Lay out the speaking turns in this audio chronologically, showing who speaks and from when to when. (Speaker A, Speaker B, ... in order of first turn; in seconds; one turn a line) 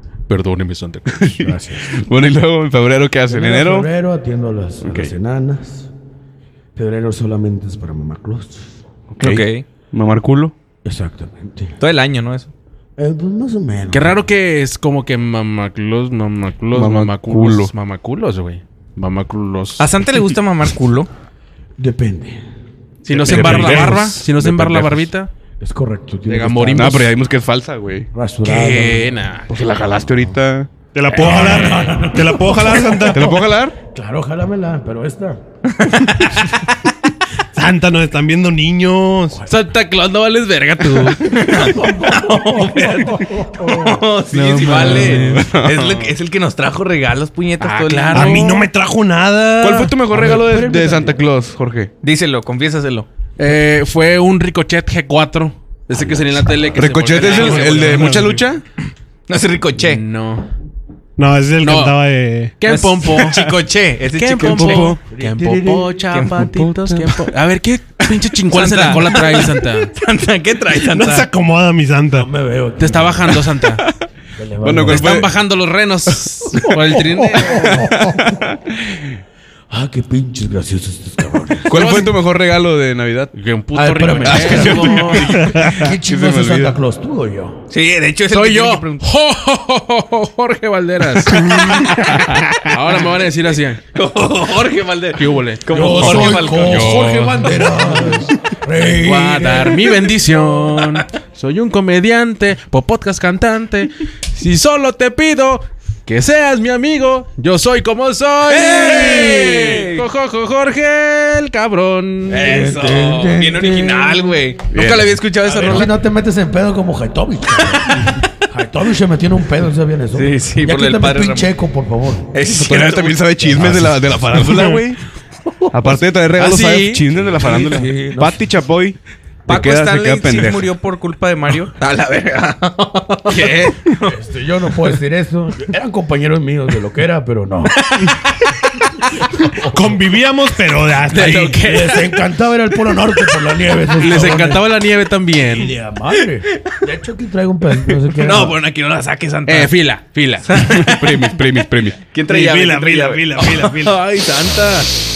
Speaker A: 0.3-1.4
Speaker B: 1.1-3.9
Speaker C: 1.4-1.9
Speaker C: 3.3-5.9
Speaker B: 4.8-5.1
Speaker C: 6.7-8.7
Speaker B: 9.1-10.5
Speaker D: 9.2-9.6
Speaker C: 10.8-11.7
Speaker D: 11.8-12.5
Speaker C: 13.0-14.2
Speaker A: 13.9-19.9
Speaker B: 16.7-17.7
Speaker D: 19.8-21.1
Speaker C: 21.8-22.4
Speaker A: 23.0-25.3
Speaker B: 23.1-25.1
Speaker C: 23.2-23.9
Speaker C: 25.6-27.1
Speaker A: 26.3-27.1
Speaker B: 26.7-28.1
Speaker C: 28.1-29.1
Speaker A: 28.4-29.5
Speaker B: 29.5-31.6
Speaker E: 30.9-33.4
Speaker C: 31.1-33.4
Speaker A: 31.2-31.7
Speaker B: 33.1-33.8
Speaker C: 33.9-35.4
Speaker D: 35.7-36.5
Speaker E: 37.5-39.4
Speaker A: 39.5-41.5
Speaker D: 41.1-48.6
Speaker C: 41.6-43.6
Speaker A: 44.3-45.5
Speaker B: 44.7-46.1
Speaker A: 47.6-48.6
Speaker E: 48.1-50.0
Speaker B: 49.6-51.9
Speaker C: 50.1-51.1
Speaker D: 52.0-53.1
Speaker A: 53.4-58.4
Speaker C: 55.9-56.4
Speaker B: 56.8-58.6
Speaker E: 57.3-58.4
Speaker D: 59.3-60.0
Speaker A: 59.8-60.5
Speaker E: 61.2-62.5
Speaker A: 61.6-62.0
Speaker A: 62.6-63.5
Speaker D: 62.6-65.0
Speaker A: 64.1-69.9
Speaker B: 64.4-65.0
Speaker C: 65.1-66.0
Speaker D: 66.1-66.5
Speaker B: 66.4-67.2
Speaker D: 68.5-71.3
Speaker E: 70.8-72.3
Speaker C: 72.1-73.4
Speaker A: 72.8-73.8
Speaker C: 74.4-75.3
Speaker B: 74.6-75.3
Speaker A: 74.8-77.9
Speaker C: 77.3-78.1
Speaker B: 77.7-79.0
Speaker C: 79.7-81.7
Speaker B: 81.7-83.3
Speaker A: 81.7-82.2
Speaker A: 83.3-85.5
Speaker C: 83.7-87.6
Speaker B: 84.2-86.8
Speaker D: 87.7-89.0
Speaker A: 88.3-91.8
Speaker D: 91.4-91.8
Speaker B: 91.9-92.4
Speaker A: 92.5-93.8
Speaker D: 93.9-97.1
Speaker A: 95.2-96.0
Speaker C: 95.7-100.1
Speaker B: 95.9-97.4
Speaker A: 96.7-97.3
Speaker A: 98.8-112.6
Speaker D: 108.5-110.0
Speaker D: 112.3-116.0
Speaker C: 112.4-114.4
Speaker B: 114.7-115.2
Speaker C: 115.4-122.5
Speaker D: 120.1-121.5
Speaker D: 122.3-123.4
Speaker B: 122.5-125.0
Speaker C: 123.5-123.9
Speaker B: 125.7-130.7
Speaker A: 126.4-127.1
Speaker C: 127.2-128.4
Speaker D: 129.4-134.1
Speaker C: 134.0-138.0
Speaker C: 139.2-140.0
Speaker E: 139.6-141.6
Speaker A: 141.1-142.1
Speaker C: 141.5-144.7
Speaker A: 143.9-145.7
Speaker C: 145.4-148.6
Speaker D: 147.8-149.7
Speaker A: 149.4-150.6
Speaker D: 150.5-151.3
Speaker B: 150.6-152.0
Speaker D: 152.1-154.9
Speaker E: 152.3-154.0